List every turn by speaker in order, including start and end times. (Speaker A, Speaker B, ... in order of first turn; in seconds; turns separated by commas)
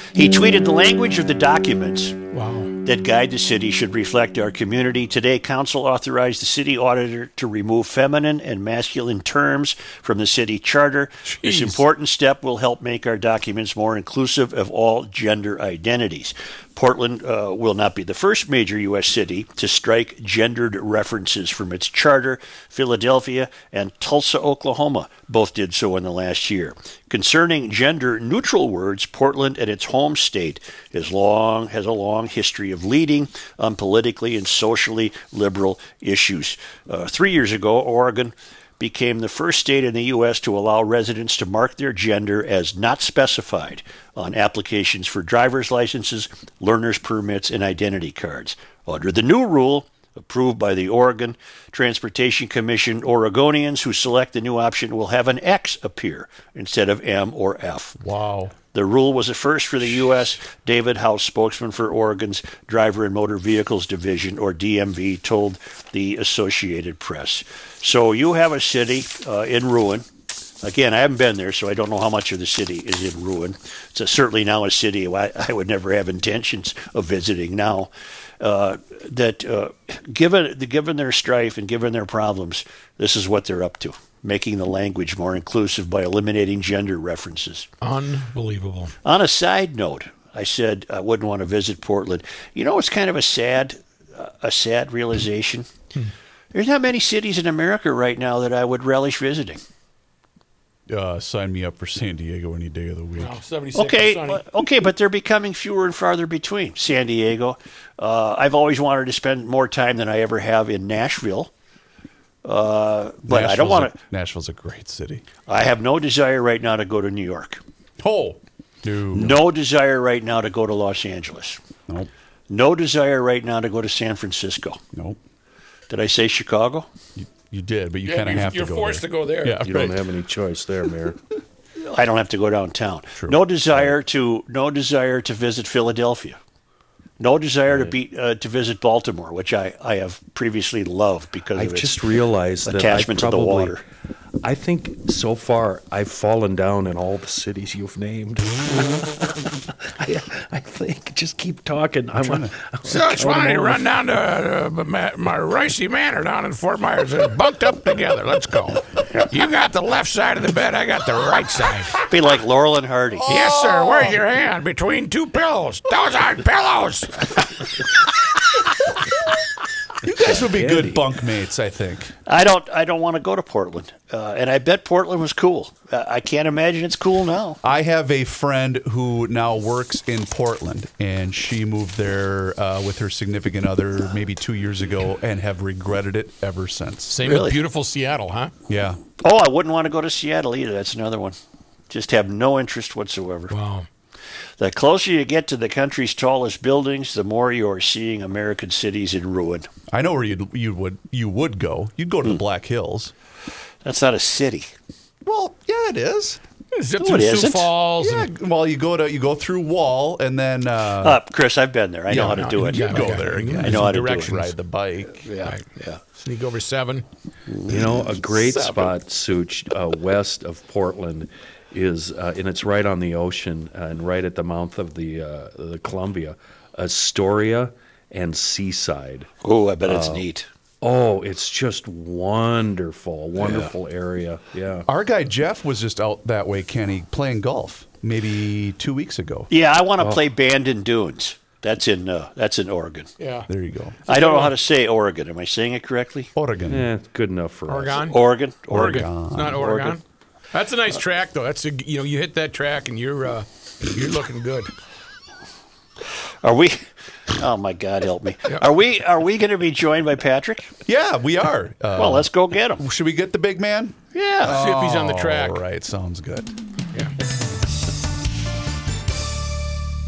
Speaker A: 0.1-2.2, Speaker B: 2.3-2.7, Speaker A: 2.9-58.0, Speaker B: 11.3-11.8, Speaker C: 58.0-58.5, Speaker A: 58.7-70.1, Speaker A: 70.6-87.7, Speaker B: 87.8-88.9, Speaker A: 89.0-95.7, Speaker A: 96.5-99.6, Speaker C: 100.9-103.4, Speaker B: 103.2-104.4, Speaker A: 103.7-111.5, Speaker A: 112.4-114.0, Speaker C: 113.3-115.2, Speaker A: 115.5-117.6, Speaker C: 118.0-119.4, Speaker A: 119.1-121.6, Speaker A: 122.5-124.8, Speaker C: 124.9-125.2, Speaker A: 125.9-126.9, Speaker C: 127.2-130.0, Speaker B: 128.1-129.6, Speaker D: 129.6-131.2, Speaker A: 131.8-136.4, Speaker A: 137.2-142.1, Speaker D: 137.7-137.9, Speaker D: 141.6-143.8, Speaker A: 142.7-143.8, Speaker D: 144.4-153.8, Speaker C: 152.2-152.5, Speaker B: 152.9-162.1, Speaker A: 162.1-163.3, Speaker C: 163.2-164.2, Speaker B: 163.3-167.5, Speaker C: 170.0-172.1, Speaker D: 170.3-171.0, Speaker A: 172.3-177.6, Speaker C: 177.6-187.2, Speaker B: 187.1-188.5, Speaker A: 187.2-187.6, Speaker C: 188.7-189.0, Speaker A: 189.2-191.4, Speaker A: 191.9-193.5, Speaker B: 193.5-193.9, Speaker A: 194.6-199.7, Speaker C: 199.9-203.1, Speaker A: 203.8-204.7, Speaker C: 205.2-206.4, Speaker B: 206.8-208.3, Speaker A: 207.0-207.7, Speaker C: 208.0-211.2, Speaker A: 211.0-214.4, Speaker C: 212.1-215.3, Speaker B: 212.1-214.5, Speaker A: 215.2-216.0, Speaker B: 215.4-217.1, Speaker A: 217.5-218.1, Speaker D: 217.7-229.3, Speaker A: 229.4-230.5, Speaker D: 229.9-230.2, Speaker D: 230.8-234.9, Speaker C: 234.9-239.5, Speaker A: 239.5-243.1, Speaker B: 243.2-243.5, Speaker C: 243.5-244.0, Speaker B: 244.1-244.5, Speaker A: 244.1-246.3, Speaker C: 246.3-246.9, Speaker D: 246.7-248.0, Speaker B: 247.7-250.0, Speaker A: 248.1-249.9, Speaker C: 248.7-249.9, Speaker B: 250.5-254.7, Speaker A: 256.4-260.7, Speaker C: 260.9-266.6, Speaker A: 262.0-262.8, Speaker A: 264.1-264.6, Speaker B: 264.5-265.6